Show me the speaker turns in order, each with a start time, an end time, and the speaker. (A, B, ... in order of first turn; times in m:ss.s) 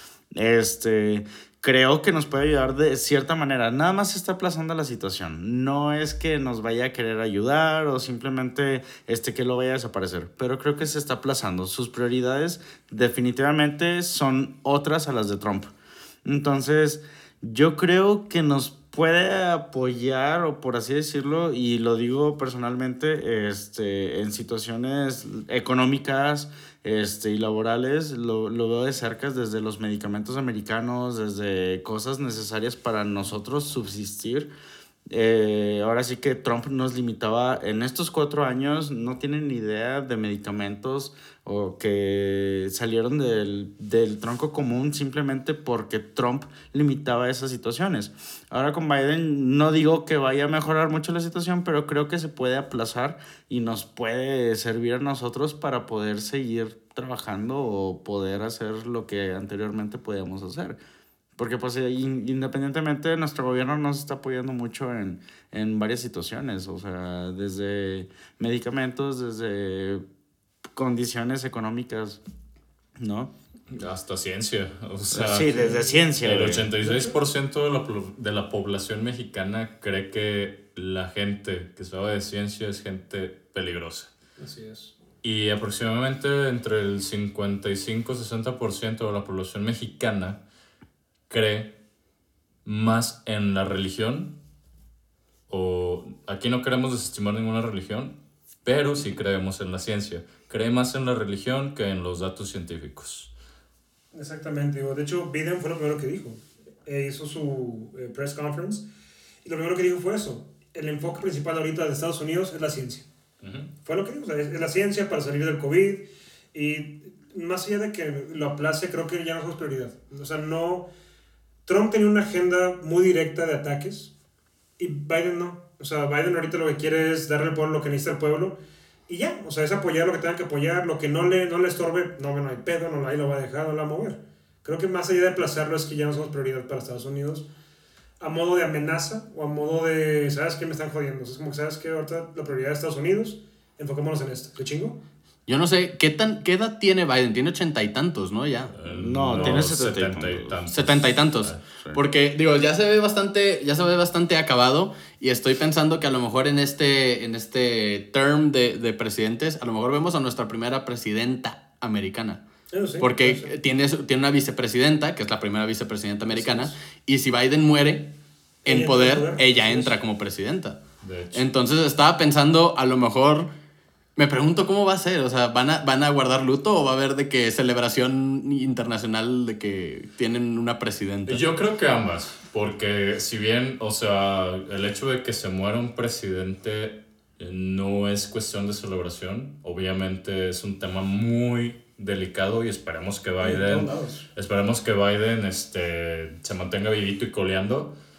0:00.3-0:15.7 A
0:16.2-0:34.5 A
0:35.1-1:00.8 A
1:01.4-1:10.0 A
1:10.7-1:12.2 A
1:13.0-1:13.3 A
1:13.7-1:24.1 B
1:15.1-1:16.7 A
1:15.6-1:15.9 C
1:16.8-1:17.2 C
1:24.4-1:24.9 C
1:25.2-1:30.4 B
1:31.3-1:31.8 B
1:32.6-1:34.4 B
1:35.5-1:43.3 B
1:44.1-1:48.9 C
1:49.4-1:53.1 C
1:53.4-1:53.7 B
1:53.8-2:00.9 C
2:01.6-2:04.1 C
2:04.8-2:17.5 C
2:18.2-2:25.0 C
2:25.5-2:28.7 D
2:28.7-2:31.6 B
2:28.8-2:30.6 A
2:30.7-2:42.4 D
2:42.7-2:43.5 C
2:43.0-2:48.1 D
2:48.6-2:50.8 D
2:48.6-2:50.0 C
2:51.0-2:51.4 B
2:51.3-2:53.5 D
2:54.2-3:01.5 D
3:01.3-3:18.0 B
3:13.4-3:14.2 C